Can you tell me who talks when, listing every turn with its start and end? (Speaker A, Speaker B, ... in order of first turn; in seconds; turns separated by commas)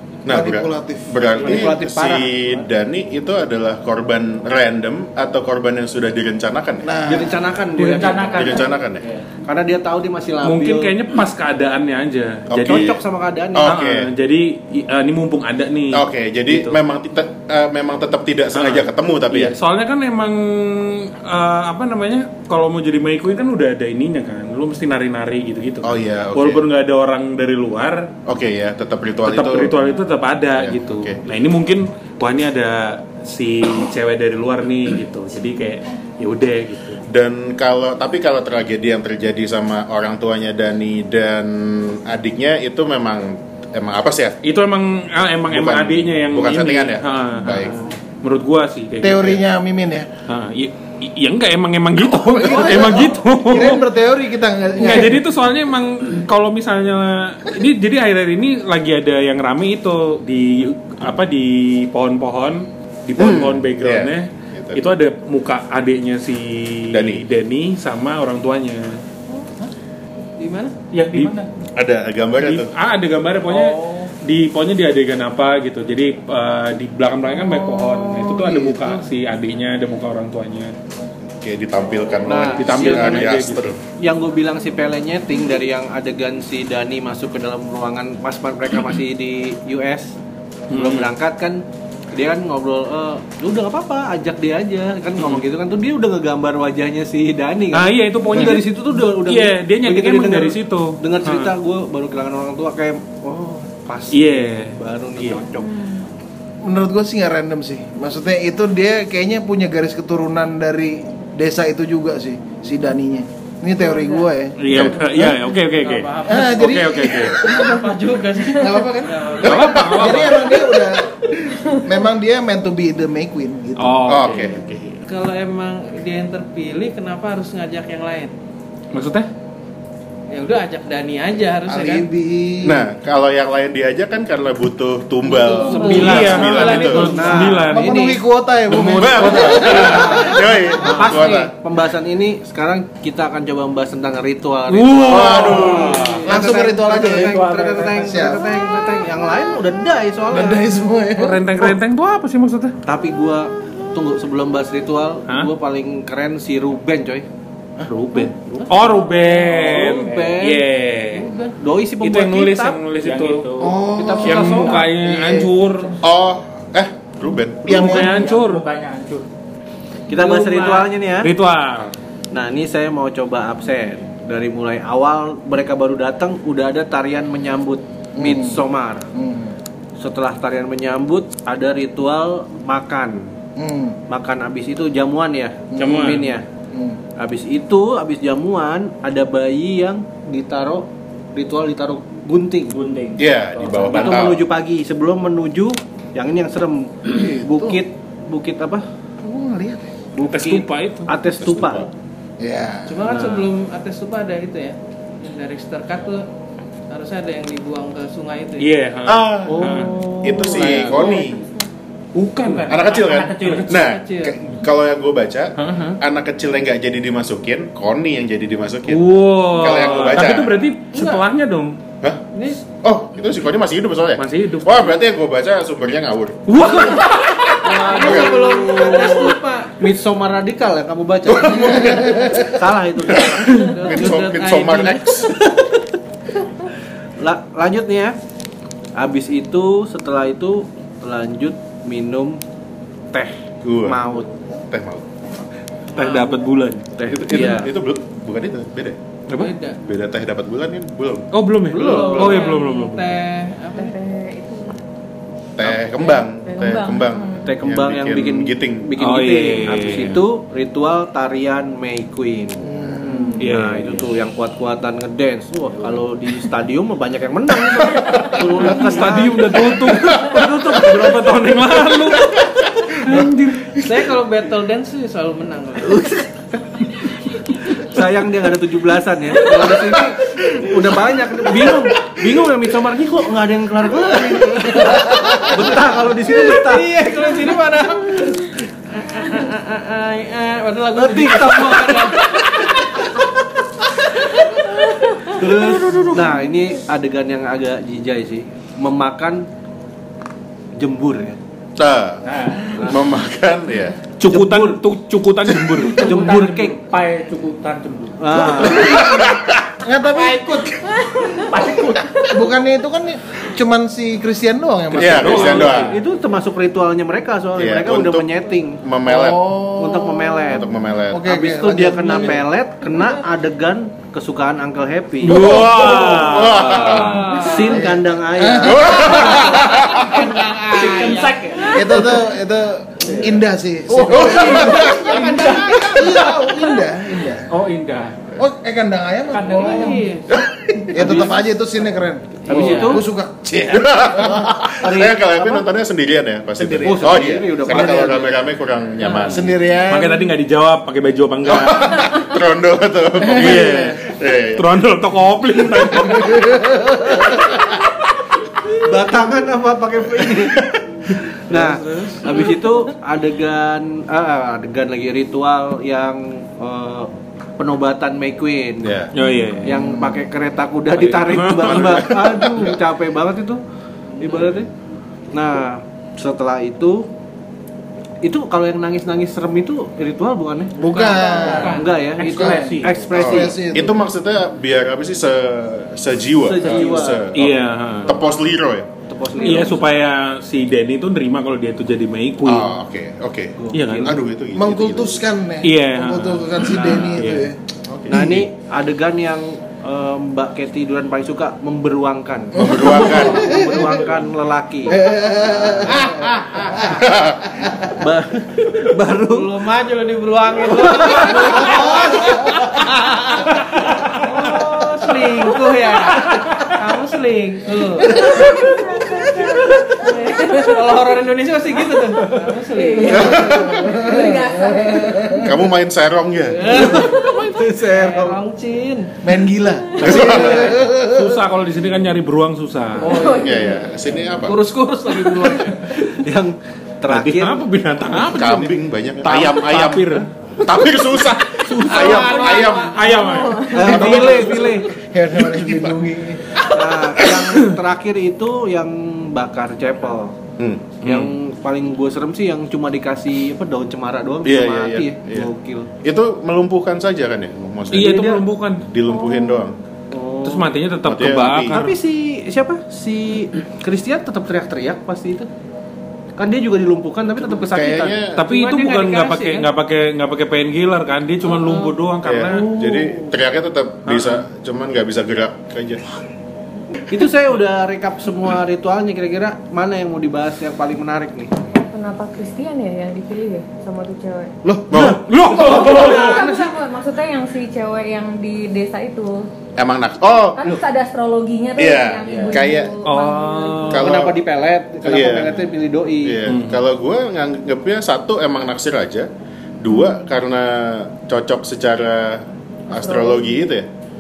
Speaker A: 0.2-7.0, Speaker B: 0.3-1.6, Speaker C: 1.4-2.5, Speaker B: 6.8-7.4, Speaker C: 7.0-8.7, Speaker D: 7.8-9.2, Speaker A: 8.3-9.1, Speaker C: 9.5-10.9, Speaker E: 10.4-12.9, Speaker A: 12.5-13.0, Speaker C: 12.6-13.8, Speaker A: 13.6-14.1, Speaker E: 13.6-16.8, Speaker A: 15.9-19.6, Speaker E: 18.5-28.1, Speaker A: 25.8-26.7, Speaker A: 28.3-29.7, Speaker E: 29.2-37.0, Speaker A: 30.6-31.2, Speaker A: 37.1-44.4, Speaker E: 44.4-49.4, Speaker A: 45.5-47.8, Speaker B: 49.0-50.1, Speaker E: 50.3-53.8, Speaker B: 52.1-55.2, Speaker E: 54.8-69.0, Speaker A: 63.2-64.8, Speaker A: 66.9-67.2, Speaker F: 70.4-70.7, Speaker D: 70.9-71.5, Speaker A: 71.8-72.7, Speaker E: 72.4-80.7, Speaker D: 73.5-74.1, Speaker G: 77.5-78.3, Speaker B: 78.4-79.0, Speaker A: 81.4-83.8, Speaker C: 82.2-83.3, Speaker E: 82.5-83.7, Speaker C: 84.0-90.1, Speaker E: 90.7-91.1, Speaker C: 90.7-105.8, Speaker E: 95.2-95.5, Speaker E: 97.7-101.5, Speaker E: 104.1-105.4, Speaker G: 105.6-106.0, Speaker B: 106.6-115.4, Speaker G: 113.8-114.3, Speaker E: 114.6-117.4, Speaker A: 114.7-115.1, Speaker F: 115.7-120.6, Speaker B: 116.3-124.2, Speaker E: 119.4-120.5, Speaker A: 119.5-119.8, Speaker E: 123.8-125.0, Speaker A: 124.0-124.7, Speaker F: 125.1-128.3, Speaker E: 128.9-129.3, Speaker F: 130.3-132.1, Speaker B: 131.7-132.9, Speaker A: 132.6-137.2, Speaker F: 135.4-138.2, Speaker C: 135.7-137.7, Speaker E: 135.8-140.3, Speaker B: 137.7-140.6, Speaker A: 139.0-141.5, Speaker C: 140.8-150.6, Speaker E: 144.7-146.3, Speaker A: 145.1-146.1, Speaker F: 145.7-146.2, Speaker B: 146.3-148.4, Speaker D: 146.9-148.3, Speaker B: 150.3-151.8, Speaker E: 151.2-152.8, Speaker C: 152.9-157.2, Speaker B: 157.8-158.3, Speaker E: 157.9-161.3, Speaker C: 158.5-160.7, Speaker C: 161.3-162.8, Speaker E: 162.0-163.5, Speaker D: 163.0-164.9, Speaker B: 163.6-165.5, Speaker C: 164.0-164.7, Speaker E: 164.2-166.0, Speaker A: 166.0-168.1, Speaker D: 167.7-169.3, Speaker E: 167.7-168.7, Speaker B: 167.7-168.1, Speaker C: 170.1-171.3, Speaker D: 170.1-170.8, Speaker E: 171.2-171.9, Speaker C: 172.3-179.1, Speaker B: 178.2-179.6, Speaker C: 180.0-183.3, Speaker B: 183.6-184.0, Speaker C: 184.1-186.4, Speaker B: 185.7-186.1, Speaker E: 185.8-186.4, Speaker B: 186.7-187.0, Speaker C: 187.2-192.8, Speaker D: 192.7-194.3, Speaker A: 193.2-194.4, Speaker C: 193.9-198.8, Speaker B: 197.1-197.8, Speaker B: 199.2-199.9, Speaker C: 200.2-201.9, Speaker E: 200.2-201.2, Speaker A: 201.4-201.9, Speaker B: 202.4-203.1, Speaker F: 202.9-206.2, Speaker F: 206.9-208.7, Speaker E: 208.6-211.1, Speaker A: 209.1-211.4, Speaker C: 209.5-211.2, Speaker G: 210.3-211.7, Speaker E: 212.2-213.6, Speaker D: 212.4-213.9, Speaker A: 212.7-220.6, Speaker F: 213.7-214.4, Speaker E: 215.6-216.0, Speaker E: 218.9-221.8, Speaker F: 220.9-221.2, Speaker A: 222.0-226.7, Speaker E: 224.2-224.7, Speaker E: 226.5-227.9, Speaker F: 227.6-229.8, Speaker C: 227.7-233.7, Speaker A: 228.0-228.4, Speaker A: 231.3-235.4, Speaker F: 233.6-235.2, Speaker C: 235.3-235.9, Speaker C: 237.2-238.2, Speaker C: 239.0-242.4, Speaker C: 243.1-244.3, Speaker A: 243.6-245.4, Speaker E: 245.9-246.9, Speaker F: 245.9-246.5, Speaker C: 247.0-247.7, Speaker A: 247.1-249.0, Speaker E: 249.3-249.6, Speaker F: 249.4-249.8, Speaker A: 249.9-251.3, Speaker E: 251.3-253.1, Speaker F: 251.7-254.0, Speaker C: 251.7-252.5, Speaker G: 253.7-254.8, Speaker A: 255.6-258.9, Speaker G: 255.9-257.6, Speaker C: 257.5-262.6, Speaker E: 259.0-260.2, Speaker B: 262.6-263.5, Speaker C: 263.3-270.3, Speaker E: 263.4-264.0, Speaker E: 268.3-273.9, Speaker F: 273.7-276.1, Speaker C: 275.9-276.8, Speaker C: 277.7-287.6, Speaker F: 279.4-280.1, Speaker F: 284.6-285.6, Speaker F: 286.3-293.2, Speaker C: 290.9-292.2, Speaker F: 295.2-296.2, Speaker C: 295.3-299.4, Speaker C: 300.8-301.4, Speaker A: 301.8-304.1, Speaker D: 302.2-302.8, Speaker C: 302.8-303.1, Speaker E: 304.2-306.2, Speaker C: 304.3-304.8, Speaker D: 305.9-308.5, Speaker C: 306.0-306.8, Speaker C: 308.2-309.1, Speaker B: 308.4-309.2, Speaker A: 308.8-309.6, Speaker B: 309.8-310.7, Speaker F: 310.4-310.7, Speaker D: 311.4-312.1, Speaker B: 312.2-315.8, Speaker E: 314.9-316.0, Speaker A: 315.0-315.9, Speaker C: 315.5-318.8, Speaker A: 317.6-318.3, Speaker A: 318.8-319.6, Speaker B: 319.1-323.2, Speaker C: 319.6-320.7, Speaker A: 320.5-321.3, Speaker C: 321.2-325.6, Speaker E: 325.2-327.4, Speaker A: 325.3-327.3, Speaker B: 325.6-326.0, Speaker F: 326.8-327.8, Speaker C: 327.3-329.1, Speaker B: 327.7-329.2, Speaker A: 328.6-330.2, Speaker F: 329.0-332.4, Speaker D: 330.7-332.0, Speaker B: 331.7-337.5, Speaker D: 333.9-336.4, Speaker A: 334.1-336.0, Speaker D: 337.5-338.2, Speaker B: 338.4-340.1, Speaker D: 339.3-340.0, Speaker F: 339.4-340.3, Speaker A: 340.4-340.9, Speaker B: 340.9-344.6, Speaker F: 341.0-341.4, Speaker D: 342.5-343.0, Speaker C: 342.5-343.0, Speaker F: 342.5-343.0, Speaker A: 343.6-349.8, Speaker C: 344.7-345.7, Speaker C: 346.6-348.5, Speaker B: 349.1-350.3, Speaker E: 349.9-352.1, Speaker A: 351.4-354.7, Speaker E: 353.2-354.0, Speaker E: 354.6-356.6, Speaker A: 357.5-357.8, Speaker C: 358.8-368.9, Speaker A: 368.8-369.1, Speaker E: 369.1-369.9, Speaker C: 369.6-373.6, Speaker B: 369.7-370.2, Speaker E: 370.9-372.3, Speaker A: 371.8-372.7, Speaker F: 374.2-374.6, Speaker C: 374.2-374.7, Speaker C: 375.3-377.1, Speaker C: 378.2-380.8, Speaker B: 380.8-384.0, Speaker F: 380.8-382.0, Speaker D: 381.4-383.1, Speaker C: 381.7-383.7, Speaker A: 383.2-388.9, Speaker C: 386.4-387.4, Speaker E: 387.3-388.1, Speaker C: 389.1-389.9, Speaker F: 389.4-389.7, Speaker E: 389.4-392.7, Speaker A: 392.4-395.2, Speaker C: 393.6-394.2, Speaker E: 393.7-394.2, Speaker B: 394.5-397.6, Speaker E: 395.6-397.5, Speaker A: 397.9-398.5, Speaker C: 398.1-405.0, Speaker A: 402.5-403.5, Speaker B: 402.6-403.9, Speaker B: 404.9-406.4, Speaker C: 405.6-406.0, Speaker F: 406.6-406.8, Speaker A: 406.9-407.6, Speaker B: 407.6-407.9, Speaker C: 407.9-409.6, Speaker F: 409.3-418.6, Speaker C: 410.8-411.7, Speaker B: 418.2-418.6, Speaker G: 418.2-420.8, Speaker F: 420.0-423.6, Speaker G: 422.7-425.5, Speaker A: 423.1-424.0, Speaker B: 423.5-425.5, Speaker A: 425.4-427.0, Speaker F: 426.5-429.1, Speaker C: 426.7-428.4, Speaker B: 429.2-431.4, Speaker A: 430.0-430.8, Speaker F: 430.1-430.6, Speaker E: 430.1-433.2, Speaker F: 433.0-433.8, Speaker G: 433.0-433.8, Speaker A: 433.2-434.6, Speaker F: 434.4-436.2, Speaker C: 436.2-437.7, Speaker E: 437.1-444.1, Speaker A: 438.2-443.0, Speaker F: 441.8-443.2, Speaker G: 443.0-443.9, Speaker C: 443.7-444.9, Speaker A: 443.8-444.8, Speaker B: 444.0-446.6, Speaker A: 445.4-445.9, Speaker C: 446.7-450.4, Speaker A: 450.6-451.1, Speaker E: 451.0-451.3, Speaker C: 451.0-455.9, Speaker A: 454.4-458.3, Speaker E: 457.9-458.9, Speaker C: 458.0-458.4, Speaker A: 458.9-459.8, Speaker G: 459.1-459.7, Speaker C: 460.1-460.7, Speaker E: 460.4-462.0, Speaker A: 461.0-461.8, Speaker C: 461.7-465.5, Speaker C: 466.4-468.3, Speaker A: 467.6-468.4, Speaker E: 468.4-472.8, Speaker F: 468.5-469.7, Speaker F: 471.5-471.9, Speaker A: 472.2-476.0, Speaker C: 472.8-473.2, Speaker E: 474.1-474.4, Speaker C: 477.1-481.6, Speaker G: 481.7-484.6, Speaker B: 484.6-485.1, Speaker A: 484.9-485.3, Speaker E: 484.9-486.4, Speaker C: 484.9-486.7, Speaker G: 485.6-489.5, Speaker A: 489.8-490.8, Speaker G: 490.5-494.1, Speaker A: 491.8-493.0, Speaker E: 493.1-494.1, Speaker A: 493.9-494.4, Speaker C: 493.9-496.5, Speaker A: 495.0-495.6, Speaker A: 496.2-499.3, Speaker E: 496.5-496.8, Speaker A: 499.8-503.9, Speaker G: 499.9-500.2, Speaker G: 502.9-503.6